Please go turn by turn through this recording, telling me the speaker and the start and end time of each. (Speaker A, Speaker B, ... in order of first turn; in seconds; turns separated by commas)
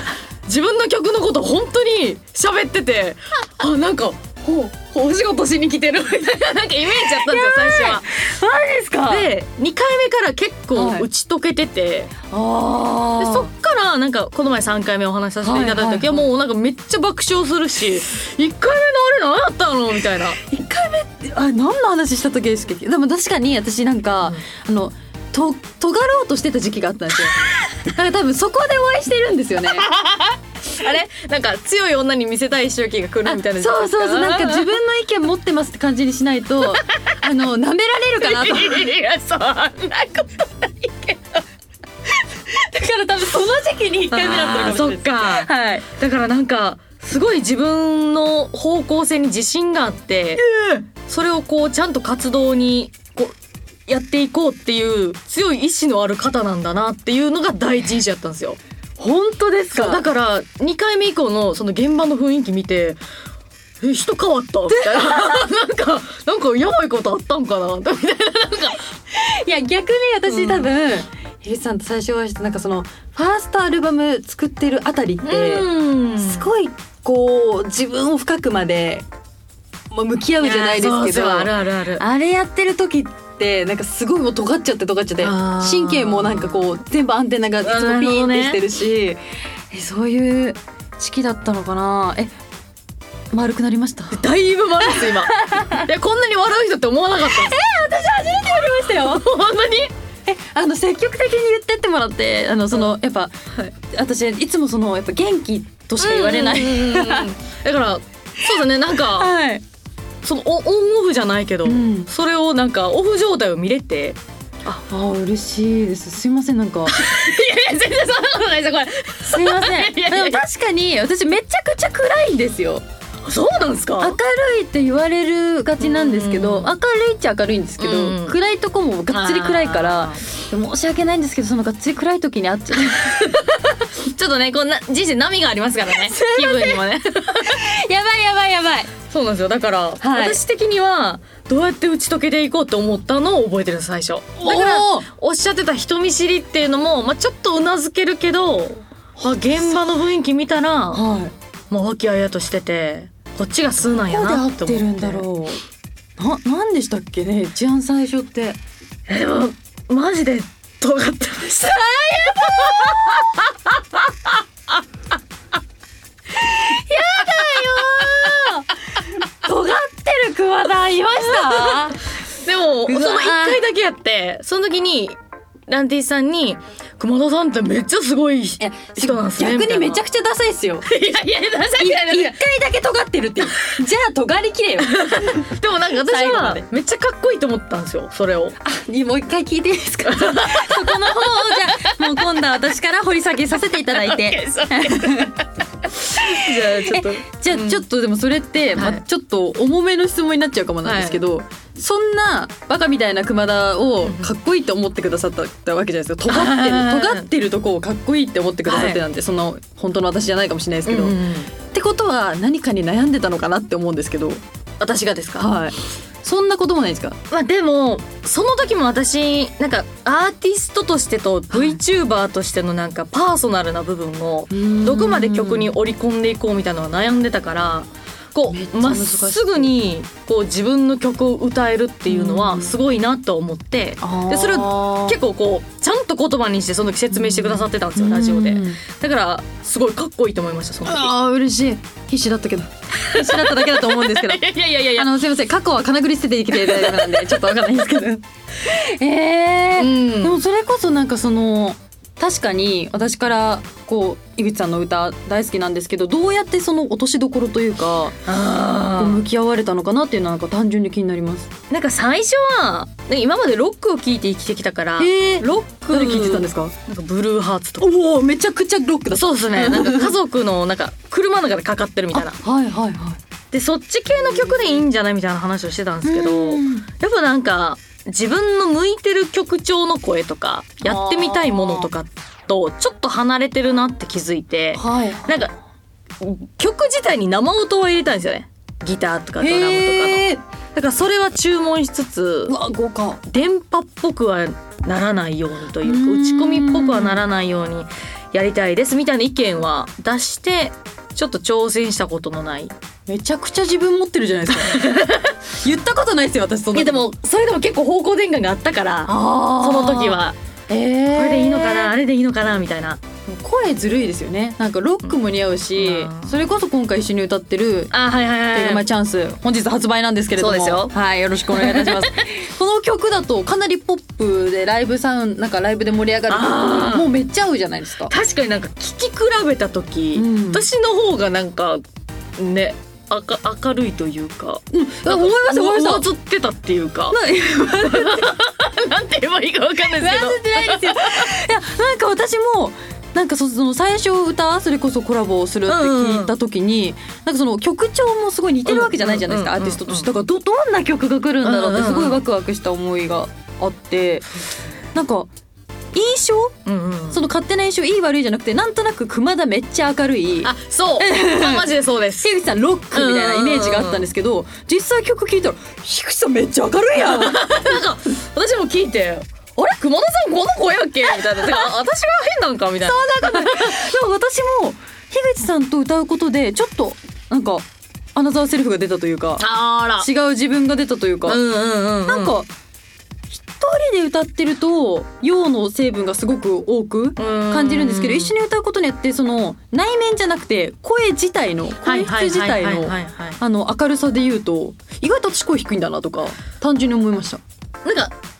Speaker A: 0.5-4.3, Speaker B: 4.4-6.1, Speaker A: 4.9-8.3, Speaker B: 7.0-9.3, Speaker A: 9.1-12.1, Speaker B: 10.7-11.1, Speaker B: 12.3-13.5, Speaker A: 13.2-20.4, Speaker B: 15.4-16.2, Speaker B: 20.4-29.9, Speaker A: 29.7-34.7, Speaker B: 33.2-38.9, Speaker A: 36.7-37.1, Speaker A: 38.1-41.4, Speaker B: 42.5-45.9, Speaker A: 44.1-50.4, Speaker B: 50.4-50.8, Speaker A: 51.0-53.4, Speaker A: 53.9-58.6, Speaker B: 59.0-60.0, Speaker A: 59.7-63.0, Speaker A: 63.8-68.8, Speaker B: 64.9-65.4, Speaker B: 69.1-79.1, Speaker A: 70.2-70.7, Speaker A: 75.2-76.5, Speaker B: 79.9-89.2, Speaker A: 80.4-82.0, Speaker A: 85.2-86.7, Speaker A: 87.6-88.6, Speaker B: 89.7-92.3, Speaker B: 93.3-94.2, Speaker A: 94.1-97.6, Speaker B: 94.9-95.8, Speaker B: 97.3-99.3, Speaker A: 98.6-99.9, Speaker B: 100.2-107.3, Speaker A: 106.0-109.3, Speaker B: 109.1-109.6, Speaker A: 110.2-114.8, Speaker B: 111.6-112.1, Speaker B: 114.9-117.0, Speaker A: 116.8-120.4, Speaker B: 119.2-122.8, Speaker A: 123.2-124.2, Speaker B: 124.0-133.3, Speaker A: 125.8-126.7, Speaker A: 127.8-128.4, Speaker A: 129.1-130.2, Speaker A: 132.9-137.6, Speaker B: 135.9-136.8, Speaker B: 137.4-138.9, Speaker A: 139.1-151.0, Speaker B: 140.0-140.4, Speaker B: 144.4-145.1, Speaker B: 149.3-149.8, Speaker B: 150.9-151.3, Speaker A: 151.7-155.3, Speaker B: 154.1-155.6, Speaker B: 156.2-158.6, Speaker A: 159.1-164.3, Speaker B: 161.9-162.9, Speaker A: 166.7-168.5, Speaker B: 166.7-168.7, Speaker B: 169.2-172.0, Speaker A: 171.2-180.0, Speaker B: 172.8-173.6, Speaker B: 178.6-180.9, Speaker A: 180.8-182.3, Speaker B: 181.8-185.4, Speaker A: 184.8-188.6, Speaker B: 186.0-186.7, Speaker B: 188.6-195.4, Speaker A: 190.0-192.2, Speaker A: 193.9-197.8, Speaker B: 196.1-214.4, Speaker A: 198.7-199.0, Speaker A: 200.8-201.2, Speaker A: 204.0-204.3, Speaker A: 206.3-207.3, Speaker A: 208.6-209.0, Speaker A: 210.8-211.5, Speaker A: 214.8-215.5, Speaker B: 215.4-217.2, Speaker A: 217.3-241.1, Speaker B: 221.5-221.8, Speaker B: 224.5-225.7, Speaker B: 228.5-229.7, Speaker B: 232.1-232.7, Speaker B: 234.0-235.2, Speaker B: 237.1-238.8, Speaker B: 240.8-258.2, Speaker A: 242.9-245.1, Speaker A: 246.5-247.6, Speaker A: 249.8-250.4, Speaker A: 258.2-259.2, Speaker B: 258.9-261.5, Speaker A: 261.7-267.9, Speaker B: 265.0-266.7, Speaker B: 267.8-270.1, Speaker A: 269.1-272.4, Speaker B: 272.1-273.2, Speaker A: 273.5-285.5, Speaker B: 276.0-276.9, Speaker B: 280.8-281.9, Speaker B: 284.7-285.5, Speaker A: 286.2-292.5, Speaker B: 289.4-290.4, Speaker B: 292.5-293.2, Speaker A: 293.3-302.7, Speaker B: 295.8-297.2, Speaker B: 303.1-304.9, Speaker A: 304.5-305.4, Speaker B: 305.5-307.1, Speaker A: 306.7-310.4, Speaker B: 309.1-311.9, Speaker A: 311.1-313.0, Speaker B: 313.2-317.9, Speaker A: 315.7-316.3, Speaker A: 317.9-318.8, Speaker B: 318.5-328.1, Speaker A: 320.4-320.9, Speaker A: 321.5-322.2, Speaker A: 326.3-327.1, Speaker A: 328.1-331.8, Speaker B: 330.1-330.7, Speaker A: 332.4-337.2, Speaker B: 334.7-336.1, Speaker B: 337.1-338.3, Speaker A: 337.8-341.3, Speaker B: 339.9-354.3, Speaker A: 345.7-346.3, Speaker A: 348.6-350.1, Speaker A: 351.4-352.2, Speaker B: 354.9-355.3, Speaker B: 355.9-356.6, Speaker A: 356.6-357.2, Speaker B: 357.1-367.8, Speaker A: 360.4-362.3, Speaker A: 362.9-364.1, Speaker A: 366.9-373.8, Speaker B: 371.4-371.6, Speaker B: 372.8-379.4, Speaker A: 379.4-380.1, Speaker B: 380.0-381.4, Speaker A: 381.2-382.4, Speaker B: 382.1-382.5, Speaker B: 383.3-397.4, Speaker A: 387.2-388.3, Speaker A: 391.8-393.4, Speaker A: 397.8-398.1